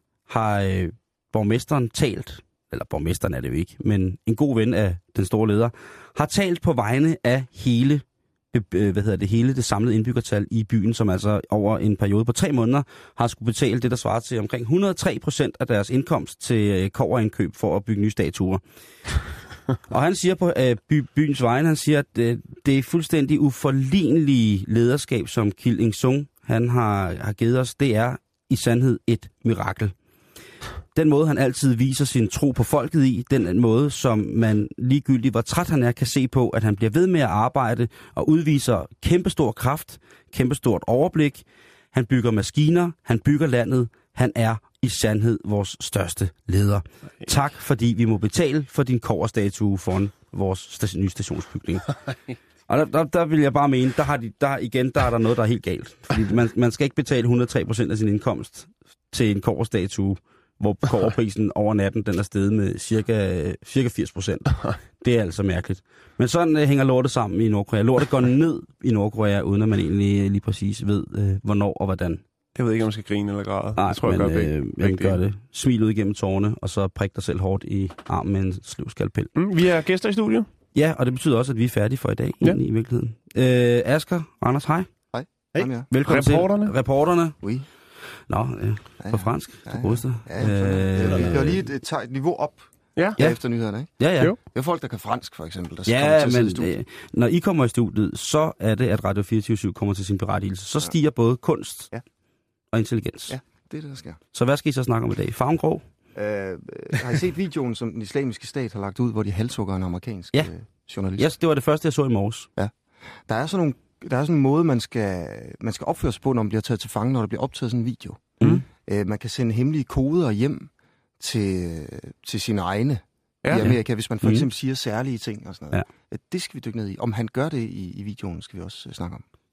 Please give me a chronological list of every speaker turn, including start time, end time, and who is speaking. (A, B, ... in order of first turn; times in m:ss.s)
0:00.3-0:18.6 A
0:19.9-0:29.9 A
0:30.9-0:52.0 A
0:52.7-1:12.2 A
1:12.6-1:15.2 B
1:13.8-1:19.3 A
1:19.4-1:20.5 B
1:20.7-1:24.9 A
1:25.1-1:25.9 C
1:25.6-1:26.7 B
1:25.9-1:27.4 A
1:28.3-1:31.6 A
1:29.0-1:36.8 C
1:34.0-1:34.4 A
1:35.9-1:41.9 A
1:42.7-1:43.4 A
1:43.3-1:44.2 C
1:44.3-1:45.9 A
1:46.2-1:51.3 C
1:51.2-1:52.5 A
1:53.3-2:09.2 C
2:03.4-2:03.7 B
2:03.6-2:04.5 A